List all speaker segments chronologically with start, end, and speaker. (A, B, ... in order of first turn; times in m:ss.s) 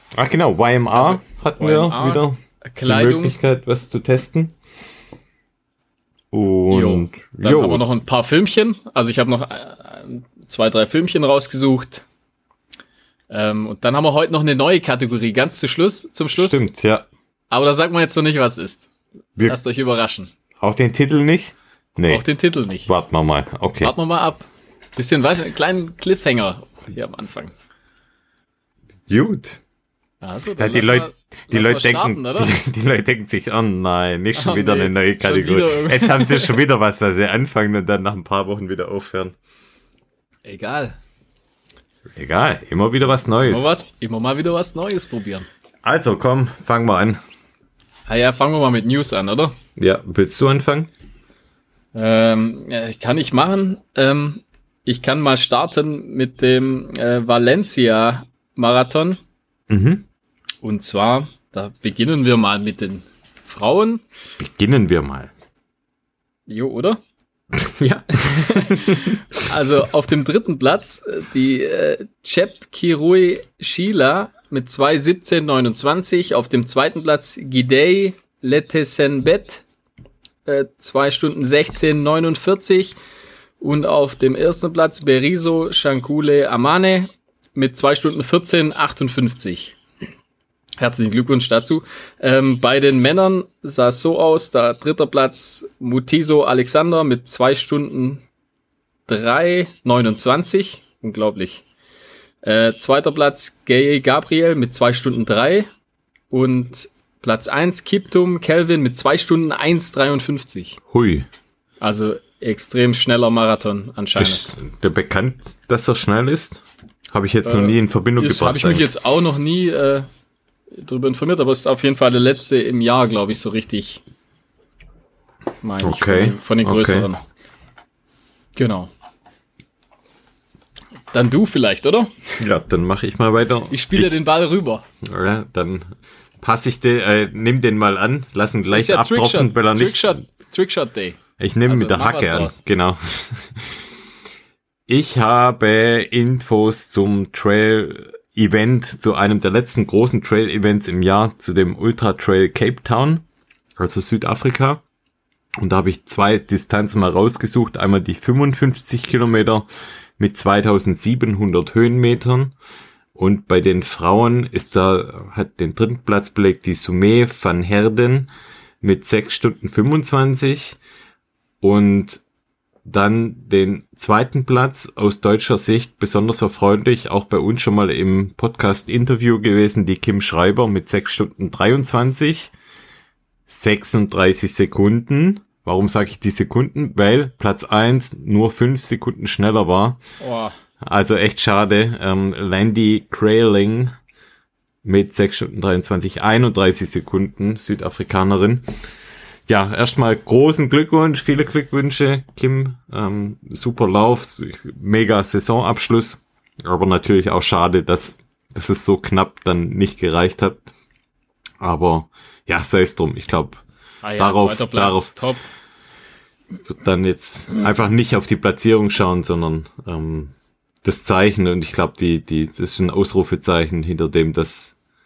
0:00.2-0:04.5 A
0:00.9-0:03.4 B
0:06.3-0:07.8 A
0:06.7-0:12.0 B
0:13.3-0:16.6 B
0:16.4-0:17.1 A
0:17.5-0:20.3 B
0:20.6-0:22.2 A
0:22.1-0:22.9 B
0:22.9-0:23.9 A
0:23.8-0:27.5 B
0:29.1-0:29.6 A
0:30.2-0:32.6 B
0:30.6-0:39.4 A
0:34.4-0:36.6 B
0:40.4-0:41.0 B
0:42.2-0:43.7 A
0:43.4-0:45.5 B
0:45.8-0:47.2 A
0:48.1-0:49.6 B
0:49.8-0:50.9 A
0:51.9-0:59.2 B
0:59.7-1:00.1 A
1:00.6-1:04.0 B
1:04.4-1:05.3 A
1:06.5-1:07.0 B
1:07.5-1:09.4 A
1:08.2-1:19.6 B
1:20.5-1:23.0 B
1:23.6-1:29.8 B
1:30.8-1:38.2 B
1:39.1-1:41.6 B
1:42.4-1:45.7 B
1:46.3-1:50.8 B
1:50.9-1:51.3 A
1:51.8-1:54.5 B
1:54.2-1:58.9 A
1:57.4-2:00.1 B
2:00.8-2:04.0 B
2:05.6-2:07.2 B
2:05.8-2:07.1 A
2:08.6-2:08.9 B
2:11.1-2:12.4 B
2:12.4-2:14.2 A
2:13.7-2:14.8 B
2:15.0-2:15.9 A
2:16.4-2:20.2 A
2:18.7-2:22.6 B
2:21.4-2:23.9 A
2:24.9-2:33.2 A
2:33.8-2:34.8 A
2:35.6-2:39.7 A
2:40.2-2:42.5 A
2:43.2-2:48.3 A
2:48.8-2:50.8 A
2:51.6-2:52.2 A
2:52.8-3:02.5 A
3:03.5-3:10.0 A
3:10.2-3:10.5 B
3:10.8-3:13.9 A
3:14.8-3:18.7 A
3:19.5-3:30.7 A
3:31.6-3:33.6 A
3:34.0-3:35.4 B
3:34.2-3:35.1 A
3:36.7-3:40.3 A
3:40.8-3:44.8 A